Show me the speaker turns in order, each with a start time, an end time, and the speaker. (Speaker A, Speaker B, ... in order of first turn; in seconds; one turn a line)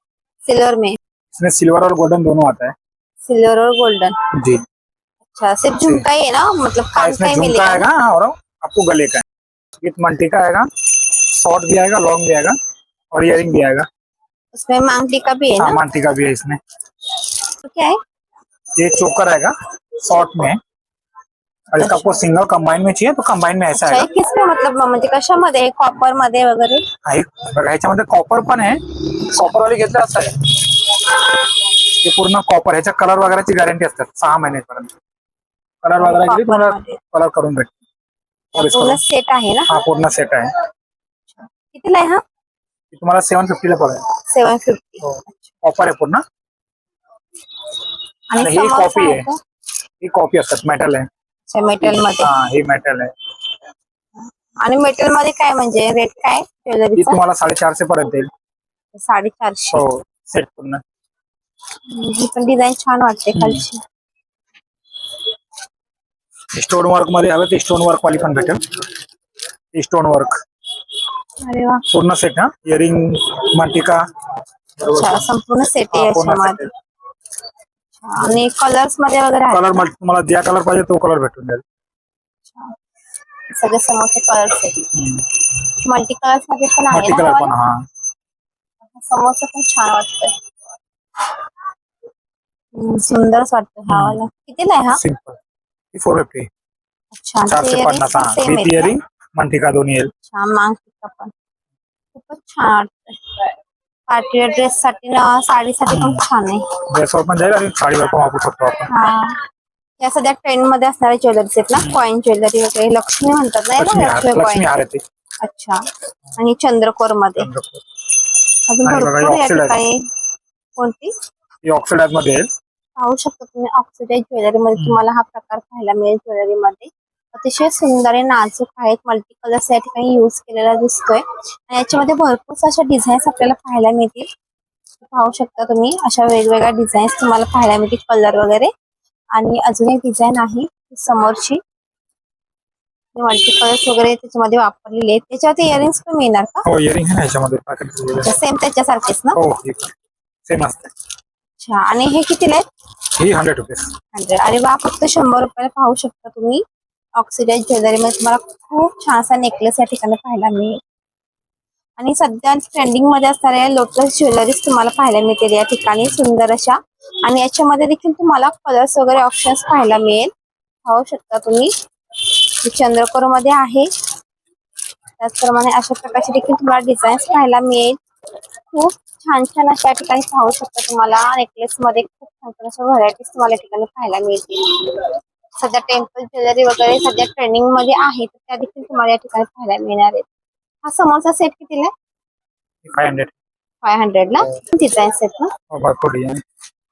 Speaker A: 0.5-1.0
Speaker B: 1.4-2.7
Speaker A: 3.2-4.2
Speaker B: 4.3-4.6
Speaker A: 5.3-7.8
Speaker B: 7.0-9.2
Speaker B: 9.8-12.6
Speaker B: 13.1-13.9
Speaker A: 14.5-15.8
Speaker B: 15.6-16.6
Speaker A: 17.6-18.0
Speaker B: 18.8-20.6
Speaker B: 21.7-24.1
Speaker A: 21.8-22.2
Speaker A: 23.7-26.8
Speaker B: 27.1-31.1
Speaker B: 32.0-34.9
Speaker B: 35.8-37.8
Speaker A: 36.0-37.0
Speaker B: 38.5-39.0
Speaker A: 38.5-39.7
Speaker B: 39.7-40.5
Speaker A: 41.4-42.2
Speaker B: 42.9-44.0
Speaker A: 44.3-45.4
Speaker B: 45.0-46.2
Speaker A: 48.3-49.4
Speaker B: 48.4-49.3
Speaker B: 50.0-51.1
Speaker A: 51.5-52.3
Speaker B: 51.8-53.1
Speaker A: 54.2-57.2
Speaker B: 57.0-58.3
Speaker A: 59.0-59.8
Speaker B: 59.7-60.8
Speaker A: 61.9-63.8
Speaker B: 63.3-63.6
Speaker B: 66.5-68.6
Speaker B: 69.7-70.4
Speaker A: 71.4-71.8
Speaker B: 71.9-74.0
Speaker B: 74.8-75.3
Speaker A: 74.9-76.7
Speaker B: 75.9-76.7
Speaker A: 78.0-79.9
Speaker B: 79.5-81.6
Speaker A: 82.5-82.7
Speaker A: 83.5-84.8
Speaker B: 84.9-85.3
Speaker A: 85.8-87.5
Speaker B: 86.9-87.8
Speaker A: 89.0-90.3
Speaker A: 92.7-95.0
Speaker B: 93.9-94.2
Speaker B: 94.9-95.4
Speaker B: 95.9-96.5
Speaker A: 97.1-98.9
Speaker B: 97.5-100.1
Speaker A: 100.3-101.3
Speaker A: 102.1-103.2
Speaker A: 104.1-106.7
Speaker B: 105.9-106.2
Speaker B: 106.9-108.9
Speaker A: 108.9-109.4
Speaker A: 110.0-114.7
Speaker B: 111.8-112.0
Speaker B: 113.8-115.0
Speaker A: 115.4-115.8
Speaker A: 116.4-117.5
Speaker B: 117.4-117.8
Speaker A: 118.7-120.0
Speaker B: 118.8-119.8
Speaker A: 120.8-121.1
Speaker B: 121.6-122.5
Speaker A: 123.0-134.3
Speaker B: 124.8-125.0
Speaker A: 135.0-138.7
Speaker A: 139.3-141.6
Speaker A: 143.2-146.7
Speaker B: 146.7-148.4
Speaker A: 148.2-149.4
Speaker B: 149.3-149.9
Speaker B: 150.5-150.9
Speaker A: 151.6-152.7
Speaker B: 153.2-153.9
Speaker A: 154.1-156.6
Speaker A: 157.2-160.8
Speaker A: 162.0-170.3
Speaker A: 170.8-171.7
Speaker A: 172.6-173.9
Speaker A: 175.2-178.0
Speaker A: 178.7-185.1
Speaker A: 185.6-190.3
Speaker A: 190.8-191.9
Speaker B: 192.8-193.3
Speaker A: 193.8-195.5
Speaker B: 195.7-196.4